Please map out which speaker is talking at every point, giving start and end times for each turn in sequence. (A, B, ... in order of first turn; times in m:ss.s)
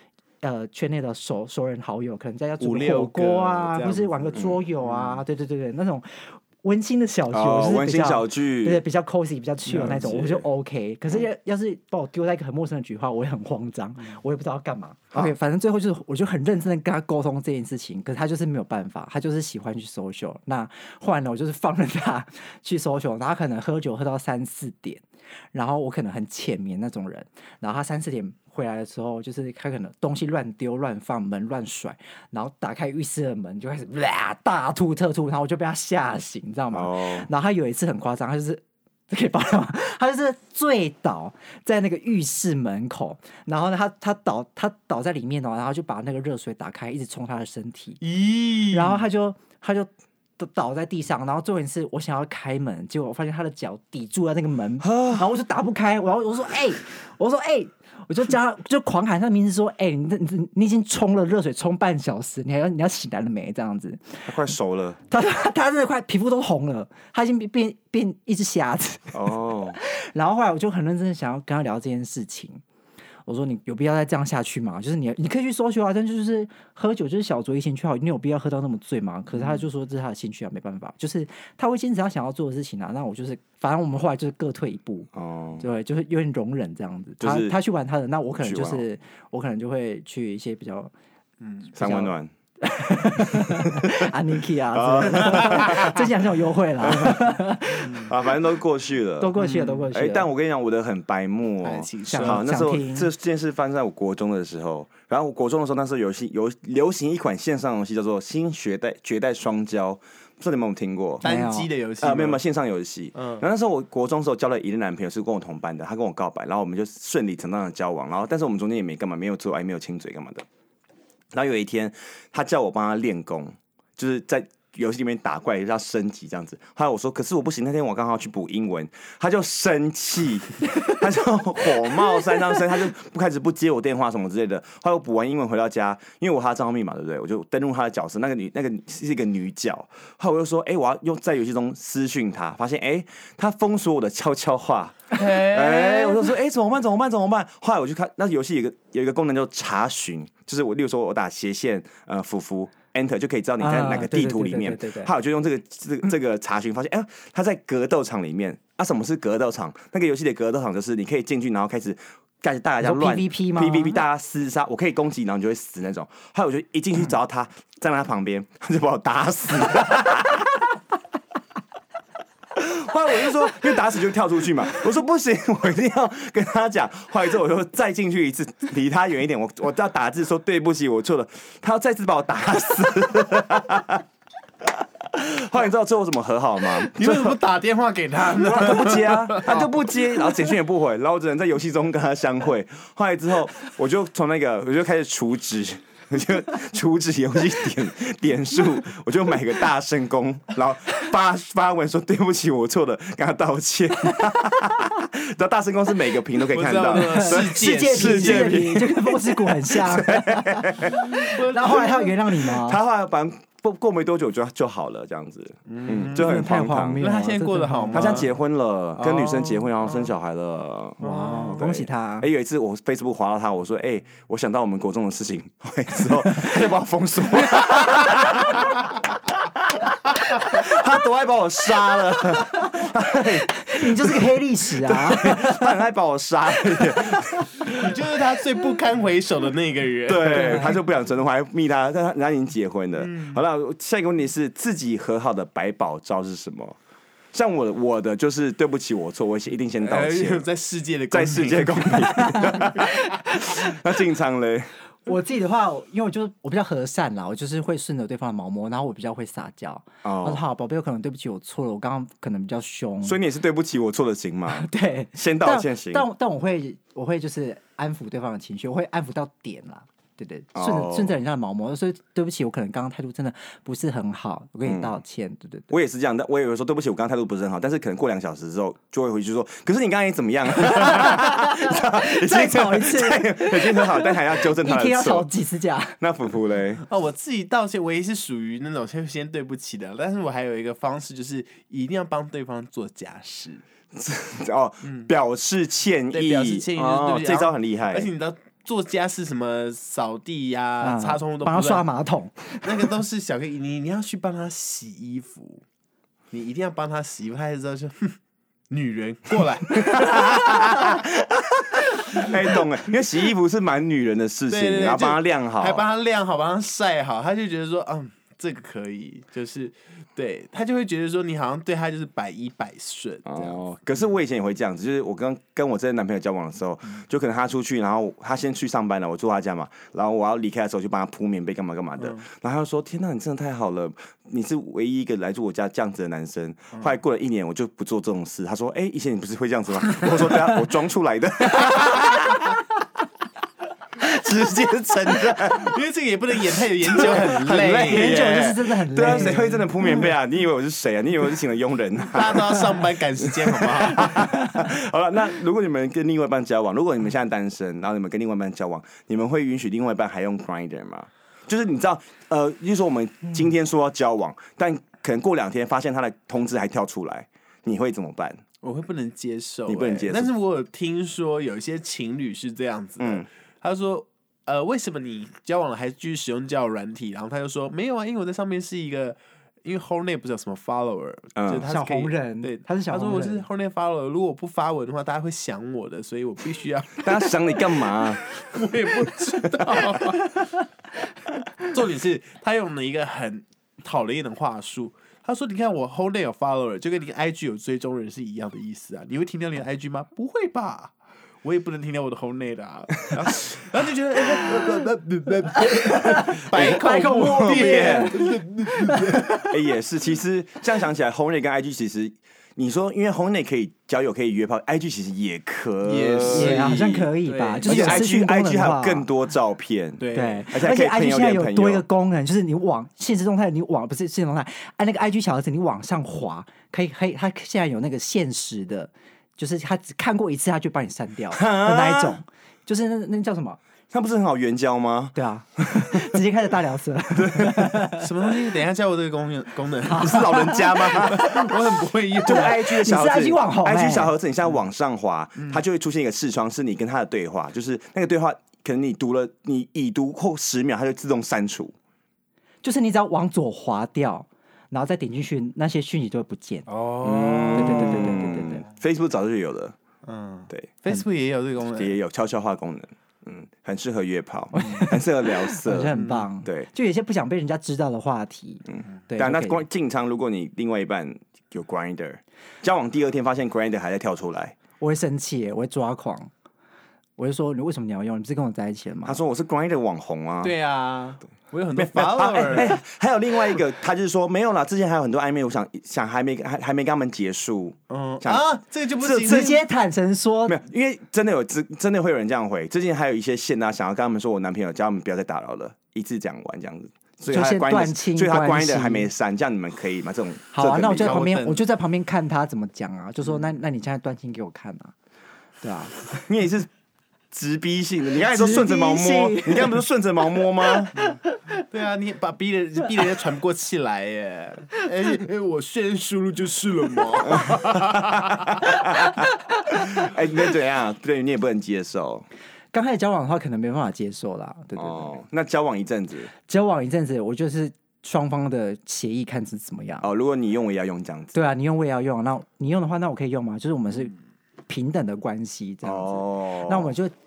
0:00.4-0:48.0 A
0:02.6-0:05.2 B
0:07.3-0:08.8 C
0:09.7-0:10.1 B
0:10.0-0:10.4 C
0:36.7-0:37.3 C
0:48.0-0:49.0 C
0:48.7-1:04.4 A
0:54.8-0:55.3 C
1:04.3-1:05.0 C
1:05.1-1:12.6 A
1:09.1-1:09.8 C
1:13.3-1:25.1 A
1:25.1-1:25.6 C
1:25.6-1:30.9 A
1:27.2-1:27.6 C
1:28.4-1:28.9 C
1:31.4-1:31.7 B
1:31.7-1:38.0 A
1:31.8-1:32.3 C
1:33.4-1:33.9 C
1:34.7-1:36.1 C
1:36.8-1:39.4 C
1:39.2-1:40.3 A
1:39.4-1:39.9 B
1:39.9-1:51.2 C
1:41.6-1:42.5 B
1:42.1-1:43.1 A
1:51.2-1:51.7 A
1:51.2-1:52.4 B
1:52.0-2:00.4 C
1:53.2-1:53.4 B
2:01.3-2:50.7 C
2:25.1-2:26.3 B
2:33.6-2:35.1 A
2:42.8-2:44.0 A
2:52.6-3:04.0 C
3:04.6-3:07.4 C
3:06.8-3:10.5 B
3:08.4-3:31.2 C
3:26.5-3:28.7 B
3:26.9-3:32.8 A
3:30.9-3:32.2 B
3:32.6-3:37.1 C
3:35.7-3:36.3 B
3:36.1-3:38.3 A
3:37.0-3:38.3 B
3:37.9-3:48.8 C
3:39.0-3:40.1 B
3:41.0-3:42.3 A
3:41.0-3:41.8 B
3:50.3-3:54.2 C
3:53.7-3:55.8 A
3:54.9-3:57.9 C
3:56.8-3:57.2 A
3:57.7-4:00.8 B
4:00.1-4:06.8 C
4:00.3-4:00.8 A
4:03.0-4:03.4 B
4:07.3-4:10.5 C
4:09.8-4:12.2 B
4:11.1-4:14.7 C
4:12.3-4:12.8 A
4:15.1-4:23.2 A
4:20.0-4:20.4 C
4:23.0-4:26.1 C
4:24.5-4:35.7 A
4:30.6-4:31.2 C
4:34.6-4:35.0 C
4:35.7-4:45.3 C
4:40.7-4:46.0 A
4:46.0-4:46.8 C
4:46.9-4:53.6 B
4:54.0-4:58.1 C
4:54.8-4:55.1 B
4:56.1-5:01.8 B
5:00.8-5:02.9 A
5:02.6-5:05.6 B
5:06.3-5:08.2 B
5:08.7-5:10.2 B
5:09.8-5:15.8 C
5:14.5-5:23.7 B
5:23.2-5:42.6 C
5:44.0-5:45.7 C
5:45.3-5:49.9 B
5:46.9-6:08.4 C
5:47.9-5:49.7 A
5:52.1-5:54.3 B
6:08.6-6:30.6 B
6:09.7-6:10.3 C
6:13.0-6:13.3 C
6:21.4-6:21.6 C
6:21.6-6:23.5 A
6:27.0-6:28.2 C
6:31.6-6:49.4 B
6:46.1-6:49.2 A
6:47.3-6:48.2 C
6:49.4-6:57.1 C
6:55.8-6:58.1 B
6:56.3-6:59.1 A
6:57.6-7:01.8 C
7:00.0-7:00.5 B
7:00.1-7:13.6 A
7:11.3-7:12.2 C
7:13.9-7:16.1 C
7:15.2-7:18.1 A
7:17.2-7:17.9 C
7:18.0-7:22.6 B
7:19.9-7:21.4 A
7:20.0-7:21.3 C
7:22.2-7:24.1 A
7:22.2-7:31.7 C
7:32.6-7:36.7 A
7:36.7-7:38.5 B
7:37.0-7:39.8 C
7:37.5-7:38.7 A
7:40.0-7:42.0 B
7:41.7-7:46.7 C
7:44.5-7:49.6 A
7:46.0-7:46.3 B
7:48.7-7:54.6 C
7:54.8-7:56.3 A
7:57.2-7:59.2 A
7:59.0-8:00.5 C
8:00.4-8:02.8 B
8:01.8-8:08.4 C
8:07.9-8:09.6 B
8:09.0-8:09.5 C
8:09.2-8:10.6 A
8:10.5-8:21.2 C
8:17.3-8:19.1 A
8:20.5-8:24.9 A
8:21.0-8:21.6 B
8:25.6-8:26.2 A
8:26.3-8:26.7 C
8:27.3-8:30.9 C
8:28.2-8:29.9 A
8:30.7-8:31.3 A
8:31.0-8:38.3 B
8:37.4-8:38.9 C
8:39.8-8:42.2 C
8:42.7-8:45.2 A
8:44.8-8:46.3 C
8:46.5-8:50.1 A
8:50.0-8:51.4 C
8:51.3-8:54.1 A
8:54.7-8:57.1 A
8:55.8-8:57.0 C